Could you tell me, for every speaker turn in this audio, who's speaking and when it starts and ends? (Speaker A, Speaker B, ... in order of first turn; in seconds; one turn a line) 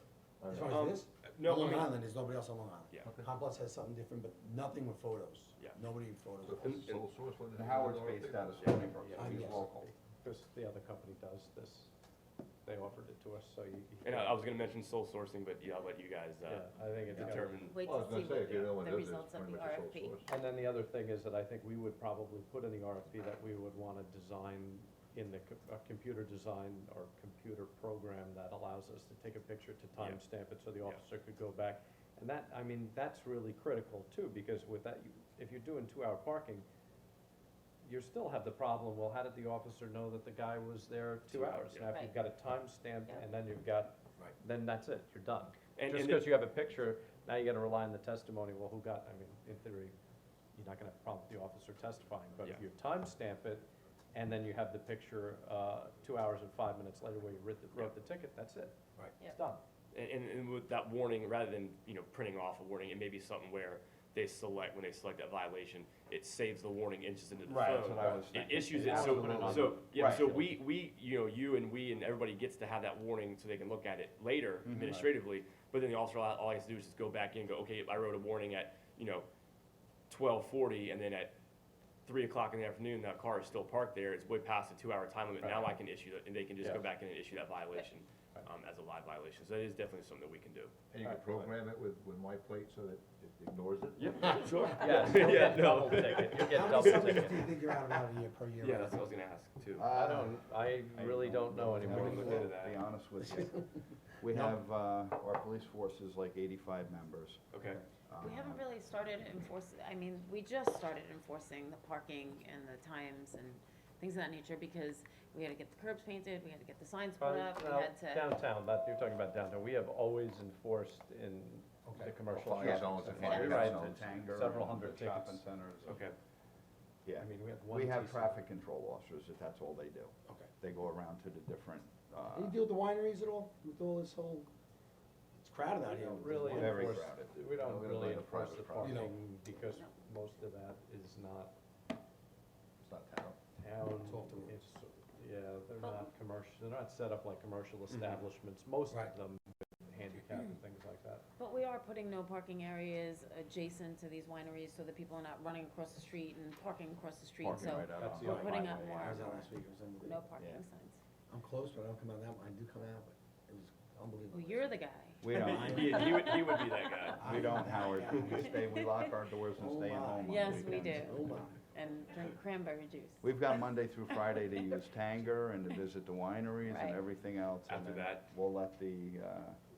Speaker A: 0.4-0.9
Speaker B: 0.5-6.8
Speaker C: 0.7-1.9
Speaker A: 3.0-3.3
Speaker A: 6.4-9.2
Speaker C: 6.6-7.0
Speaker D: 7.5-9.8
Speaker E: 8.9-11.9
Speaker B: 9.2-9.7
Speaker E: 12.7-14.6
Speaker C: 14.0-16.7
Speaker E: 16.4-17.6
Speaker A: 17.1-20.3
Speaker C: 17.2-17.8
Speaker F: 17.6-20.4
Speaker E: 20.3-36.6
Speaker E: 37.8-49.9
Speaker C: 41.3-41.9
Speaker F: 41.9-42.2
Speaker C: 45.8-46.3
Speaker E: 50.5-59.6
Speaker C: 59.9-79.3
Speaker D: 67.4-70.3
Speaker A: 68.0-69.8
Speaker E: 68.7-70.6
Speaker D: 74.7-75.1
Speaker C: 80.1-81.3
Speaker C: 82.0-90.8
Speaker E: 85.4-85.7
Speaker A: 90.9-95.0
Speaker E: 91.1-91.5
Speaker C: 94.0-97.3
Speaker E: 94.8-97.5
Speaker B: 94.9-95.5
Speaker B: 96.3-99.1
Speaker C: 98.6-99.9
Speaker D: 99.7-103.6
Speaker E: 99.8-102.8
Speaker B: 101.6-102.6
Speaker B: 103.2-103.7
Speaker D: 104.2-108.6
Speaker B: 104.3-104.6
Speaker C: 107.5-107.8
Speaker F: 108.2-118.3
Speaker E: 117.2-125.4
Speaker B: 121.9-122.2
Speaker A: 122.3-124.0
Speaker D: 122.5-126.1
Speaker F: 123.2-123.7
Speaker C: 125.8-126.2
Speaker D: 127.0-132.6
Speaker E: 127.2-128.4
Speaker B: 132.3-134.5
Speaker B: 135.3-137.1
Speaker E: 135.8-141.5
Speaker D: 136.3-139.1
Speaker A: 137.8-138.9
Speaker B: 138.8-139.2
Speaker F: 139.5-139.9
Speaker A: 142.8-143.4
Speaker E: 143.6-151.2
Speaker B: 144.0-144.6
Speaker F: 145.8-146.1
Speaker C: 147.9-148.2
Speaker F: 151.4-161.0
Speaker D: 157.4-159.4
Speaker E: 157.9-158.5
Speaker B: 158.2-158.5
Speaker B: 159.0-160.3
Speaker D: 160.4-160.6
Speaker B: 161.3-164.7
Speaker F: 164.3-167.4
Speaker D: 165.2-166.2
Speaker B: 165.3-166.4
Speaker C: 165.4-167.2
Speaker B: 167.2-168.6
Speaker D: 167.2-171.4
Speaker F: 168.2-169.1
Speaker B: 169.5-171.6
Speaker F: 170.2-173.4
Speaker D: 173.2-179.6
Speaker F: 176.7-177.0
Speaker C: 177.7-178.2